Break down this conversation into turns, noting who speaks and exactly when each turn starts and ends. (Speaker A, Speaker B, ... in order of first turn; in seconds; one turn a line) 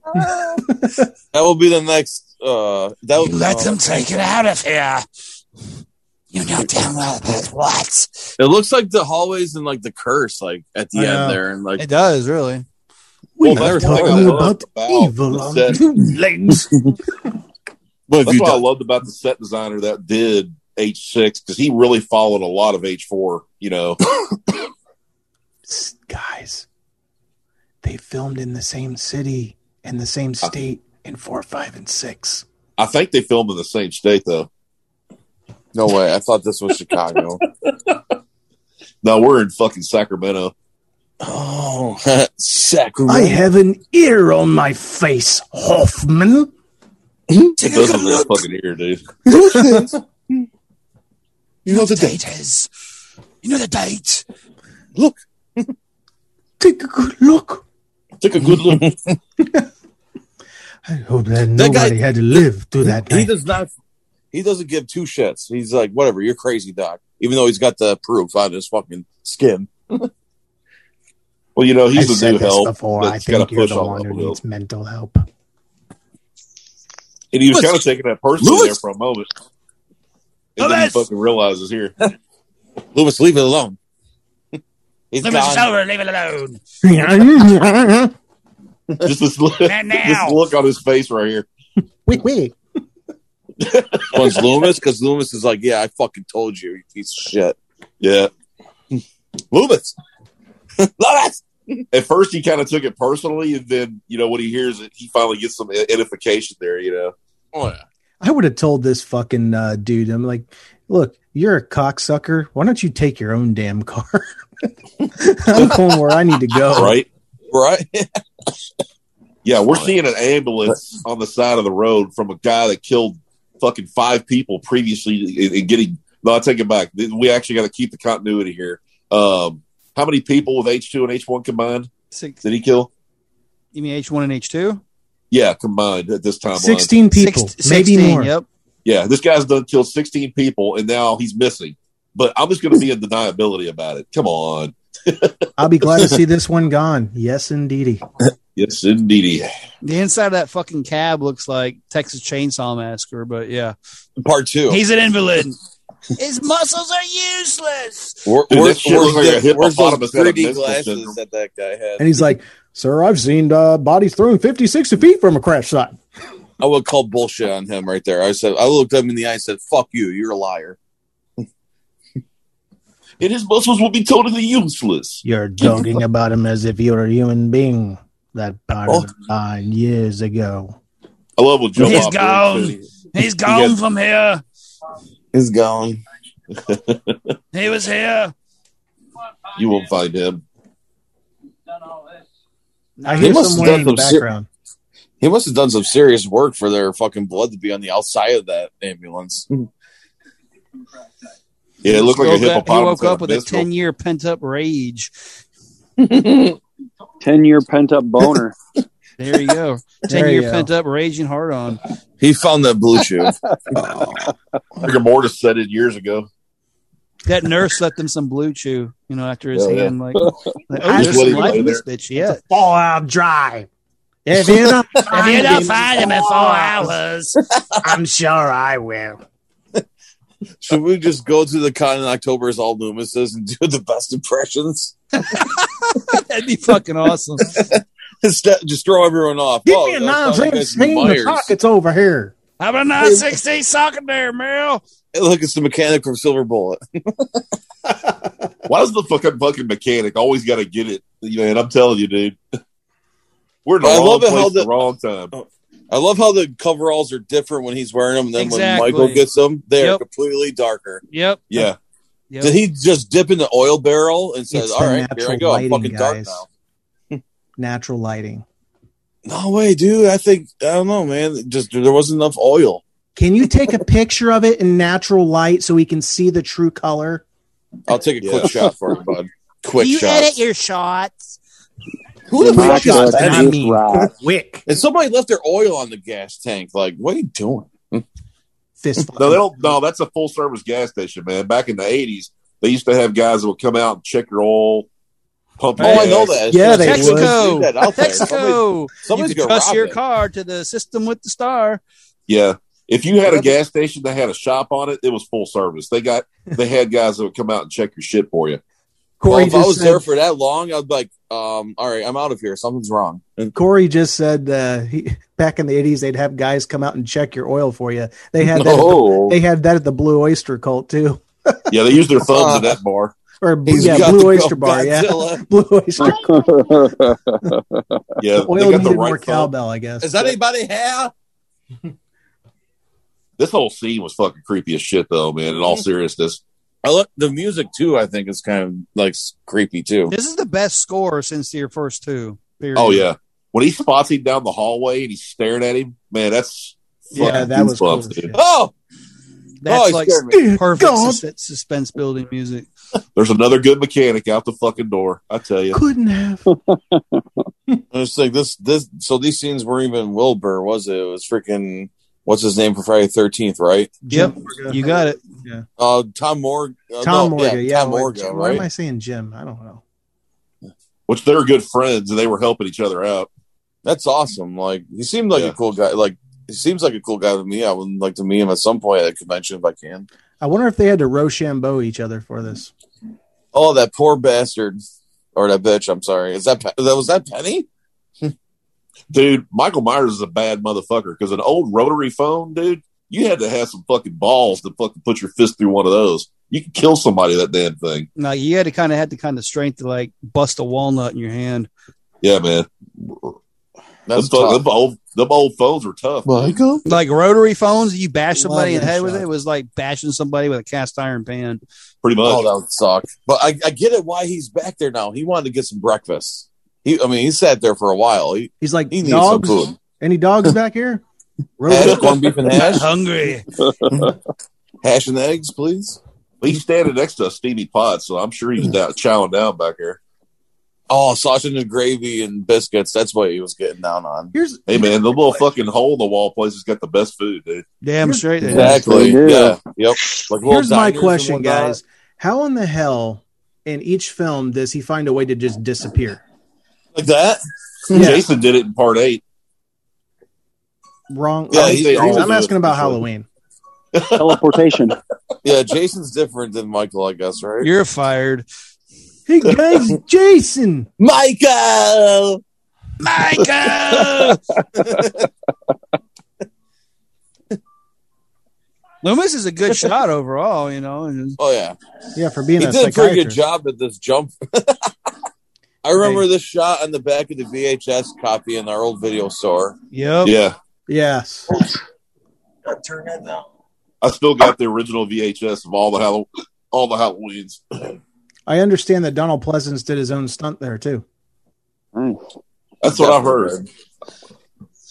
Speaker A: 0.1-0.7
Speaker A: 1.3-4.1
Speaker B: 3.2-5.0
Speaker B: 6.3-8.3
Speaker A: 8.4-11.8
Speaker C: 10.9-11.4
Speaker B: 11.8-12.6
Speaker C: 13.4-16.7
Speaker D: 13.4-15.8
Speaker A: 13.5-14.4
Speaker A: 18.1-18.6
Speaker D: 18.2-24.0
Speaker C: 25.6-26.6
Speaker C: 27.8-32.4
Speaker D: 32.8-34.5
Speaker A: 35.7-37.4
Speaker D: 39.0-40.5
Speaker A: 41.2-43.4
Speaker C: 43.1-46.5
Speaker B: 47.6-48.4
Speaker D: 47.6-49.0
Speaker C: 49.2-49.9
Speaker A: 49.3-50.0
Speaker B: 51.7-52.7
Speaker D: 51.7-52.1
Speaker B: 53.4-54.2
Speaker A: 55.0-55.7
Speaker C: 56.6-57.6
Speaker D: 58.2-58.9
Speaker A: 58.7-59.1
Speaker C: 59.4-59.6
Speaker C: 60.9-63.3
Speaker A: 61.6-62.4
Speaker A: 62.9-63.7
Speaker A: 64.3-70.1
Speaker D: 71.5-74.4
Speaker C: 71.9-75.2
Speaker D: 77.3-79.3
Speaker A: 77.5-77.8
Speaker A: 78.4-78.8
Speaker D: 80.5-81.9
Speaker B: 80.6-81.0
Speaker A: 82.9-83.8
Speaker A: 85.1-85.7
Speaker B: 85.2-86.6
Speaker C: 86.8-88.1
Speaker D: 89.0-91.5
Speaker B: 89.6-90.4
Speaker C: 92.1-92.5
Speaker D: 93.6-94.5
Speaker A: 94.1-97.6
Speaker D: 98.0-98.3
Speaker A: 99.5-99.9
Speaker A: 100.8-101.8
Speaker D: 101.9-107.1
Speaker A: 107.5-107.8
Speaker C: 108.2-117.0
Speaker D: 116.7-117.1
Speaker A: 117.5-118.1
Speaker D: 119.4-131.9
Speaker B: 132.1-132.4
Speaker D: 132.4-132.9
Speaker B: 133.7-134.8
Speaker D: 135.3-136.9
Speaker C: 136.5-138.3
Speaker B: 137.1-138.4
Speaker D: 138.8-145.4
Speaker C: 145.6-148.0
Speaker D: 148.6-149.5
Speaker B: 149.8-153.7
Speaker A: 154.2-154.8
Speaker B: 154.7-155.6
Speaker B: 156.2-158.3
Speaker A: 158.2-162.1
Speaker D: 158.5-161.2
Speaker C: 162.0-166.0
Speaker A: 166.6-170.8
Speaker D: 173.2-175.2
Speaker C: 175.2-180.8
Speaker D: 181.4-182.9
Speaker B: 181.8-184.4
Speaker D: 183.4-183.8
Speaker A: 185.3-186.0
Speaker D: 186.5-187.2
Speaker B: 187.5-188.3
Speaker D: 189.5-190.4
Speaker B: 193.0-193.9
Speaker C: 193.1-194.5
Speaker A: 193.2-194.2
Speaker A: 195.2-199.7
Speaker D: 201.8-203.7
Speaker B: 201.8-205.1
Speaker A: 206.0-206.6
Speaker E: 207.2-208.5
Speaker B: 209.2-211.8
Speaker C: 210.1-210.7
Speaker A: 212.2-213.8
Speaker D: 214.8-216.3
Speaker B: 217.2-222.4
Speaker D: 219.6-219.9
Speaker A: 219.6-220.3
Speaker C: 220.7-223.7
Speaker D: 220.9-221.8
Speaker C: 224.2-226.9
Speaker A: 225.0-225.4
Speaker B: 225.1-227.4
Speaker C: 227.8-229.2
Speaker A: 230.6-234.9
Speaker B: 235.3-237.6
Speaker A: 237.4-241.5
Speaker C: 239.6-242.3
Speaker B: 242.6-244.8
Speaker A: 245.1-247.4
Speaker D: 248.7-252.4
Speaker D: 253.6-255.3
Speaker A: 253.8-254.7
Speaker A: 255.3-261.0
Speaker B: 258.4-259.2
Speaker B: 261.1-261.7
Speaker D: 261.5-261.8
Speaker B: 262.3-262.6
Speaker A: 262.4-266.5
Speaker C: 264.5-266.4
Speaker C: 267.6-268.4
Speaker A: 269.2-272.8
Speaker C: 273.1-277.2
Speaker A: 277.9-280.3
Speaker D: 278.2-278.7
Speaker B: 279.8-281.2
Speaker A: 282.3-283.5
Speaker E: 282.3-284.1
Speaker C: 282.4-284.6
Speaker A: 284.7-288.0
Speaker C: 288.8-289.5
Speaker D: 289.2-294.9
Speaker D: 295.6-296.4
Speaker C: 295.8-297.4
Speaker A: 295.8-300.0
Speaker B: 296.6-301.8
Speaker D: 302.3-308.6
Speaker C: 309.2-310.1
Speaker A: 309.3-313.5
Speaker C: 313.5-321.7
Speaker A: 318.5-319.4
Speaker D: 321.7-323.1
Speaker A: 322.3-322.8
Speaker C: 323.4-326.5
Speaker A: 323.7-325.4
Speaker D: 323.8-324.1
Speaker E: 326.0-327.2
Speaker D: 328.2-329.5
Speaker C: 328.5-330.4
Speaker A: 330.0-331.1
Speaker D: 333.4-336.4
Speaker A: 336.8-340.1
Speaker B: 340.1-343.1
Speaker D: 342.7-348.3
Speaker C: 347.1-348.4
Speaker B: 347.2-347.4
Speaker A: 348.3-348.7
Speaker B: 349.6-352.7
Speaker A: 349.6-350.4
Speaker C: 350.3-351.2
Speaker D: 353.1-355.8
Speaker C: 355.7-356.5
Speaker E: 356.5-357.2
Speaker A: 357.9-364.0
Speaker C: 364.1-364.8
Speaker B: 364.1-365.2
Speaker A: 365.8-368.6
Speaker C: 367.0-369.8
Speaker D: 371.1-373.3
Speaker A: 373.8-380.1
Speaker C: 380.4-382.7
Speaker A: 383.5-384.8
Speaker A: 385.4-387.7
Speaker D: 389.1-398.1
Speaker B: 398.2-401.7
Speaker D: 402.2-403.3
Speaker A: 404.1-404.6
Speaker D: 404.1-406.3
Speaker A: 406.2-406.8
Speaker B: 406.9-411.6
Speaker C: 408.3-409.3
Speaker D: 412.0-412.4
Speaker A: 412.2-419.7
Speaker C: 418.6-421.0
Speaker C: 421.6-422.1
Speaker A: 421.7-422.9
Speaker D: 421.8-422.2
Speaker B: 422.5-423.4
Speaker A: 423.8-424.1
Speaker A: 424.8-426.0
Speaker D: 426.4-430.0
Speaker A: 430.9-434.3
Speaker C: 434.3-435.4
Speaker D: 434.7-437.6
Speaker B: 437.8-439.1
Speaker C: 438.0-438.8
Speaker A: 438.5-441.8
Speaker D: 438.5-439.1
Speaker E: 438.6-439.6
Speaker C: 440.4-446.2
Speaker A: 446.9-447.4
Speaker D: 447.9-449.2
Speaker C: 447.9-448.2
Speaker C: 451.1-453.2
Speaker A: 451.5-452.5
Speaker D: 451.5-453.0
Speaker D: 453.9-454.4
Speaker E: 454.1-455.0
Speaker A: 455.4-457.7
Speaker B: 457.6-458.4
Speaker C: 459.3-460.9
Speaker A: 461.0-462.4
Speaker B: 463.0-464.4
Speaker A: 463.6-465.3
Speaker B: 469.0-471.4
Speaker A: 471.4-471.8
Speaker C: 472.1-473.4
Speaker A: 472.6-474.9
Speaker A: 475.8-479.8
Speaker B: 479.9-480.3
Speaker D: 480.2-480.6
Speaker C: 480.9-481.5
Speaker A: 482.6-483.4
Speaker D: 484.0-487.6
Speaker C: 488.5-491.0
Speaker D: 492.8-493.6
Speaker A: 492.9-493.6